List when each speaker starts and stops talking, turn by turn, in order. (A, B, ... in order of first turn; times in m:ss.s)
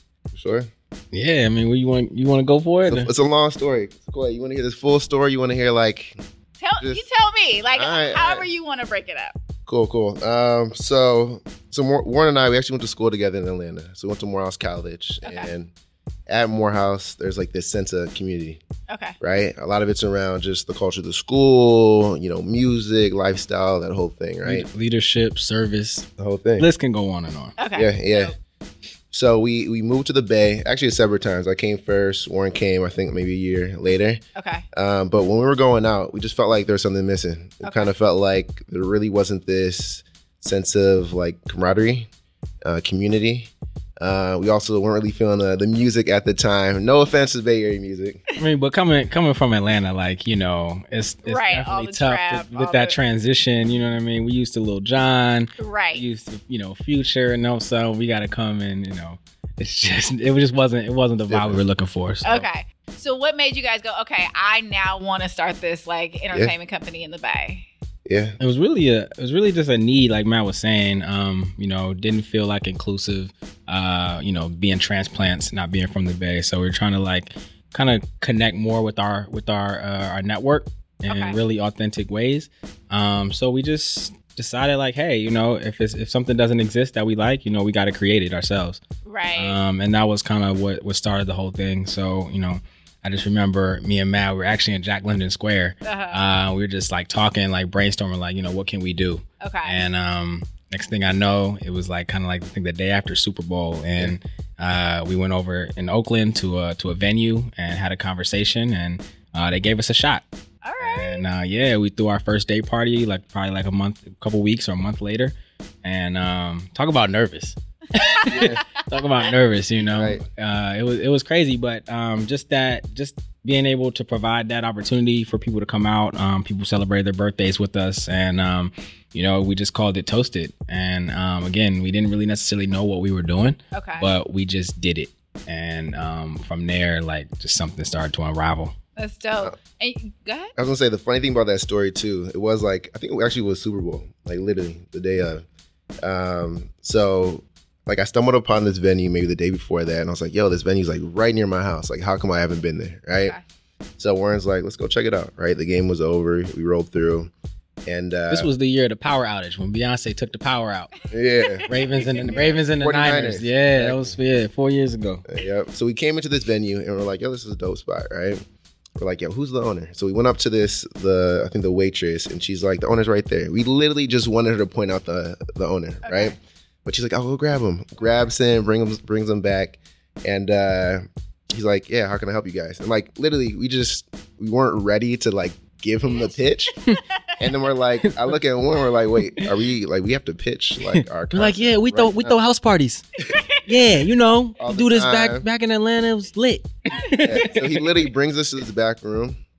0:00.3-0:00.7 A
0:01.1-0:03.1 B
0:02.9-0:06.2 A
0:06.6-0:09.3 C
0:06.8-0:07.1 A
0:07.7-0:08.5 A
0:09.7-0:15.7 A
0:15.2-0:15.5 C
0:16.3-0:18.6 A
0:18.9-0:19.2 C
0:19.2-0:24.7 A
0:24.4-0:26.1 B
0:26.2-0:26.7 A
0:26.6-0:27.6 B
0:27.6-0:28.4 C
0:27.7-0:28.4 A
0:29.1-0:34.2 A
0:34.4-0:34.6 C
0:34.7-0:42.1 A
0:37.6-0:37.9 C
0:42.6-0:48.2 A
0:48.4-1:02.5 B
0:51.2-0:53.0 C
0:55.6-0:56.1 C
1:01.3-1:01.6 A
1:02.2-1:07.7 C
1:08.1-1:08.4 A
1:08.4-1:28.8 B
1:21.1-1:21.4 C
1:29.0-1:29.6 C
1:29.4-1:50.2 B
1:35.8-1:36.2 C
1:39.4-1:39.8 C
1:50.6-1:51.2 C
1:50.8-2:18.8 B
1:58.1-1:58.6 C
1:58.3-1:58.7 A
1:59.8-2:00.2 A
2:13.7-2:14.1 C
2:19.0-2:20.5 C
2:20.6-2:25.4 A
2:26.0-2:33.4 A
2:33.2-2:33.4 C
2:34.0-2:37.3 A
2:37.9-2:38.5 A
2:38.3-2:40.9 B
2:41.1-2:44.2 A
2:41.4-2:42.5 C
2:41.7-2:45.2 B
2:45.3-2:48.4 A
2:49.0-3:06.7 A
2:56.0-2:56.4 C
2:58.0-2:58.3 C
3:06.0-3:06.4 C
3:06.9-3:07.4 C
3:07.4-3:12.4 A
3:08.0-3:08.3 B
3:09.2-3:09.5 B
3:10.8-3:13.1 B
3:13.2-3:13.6 C
3:13.6-3:17.9 B
3:14.6-3:15.5 A
3:17.2-3:19.4 A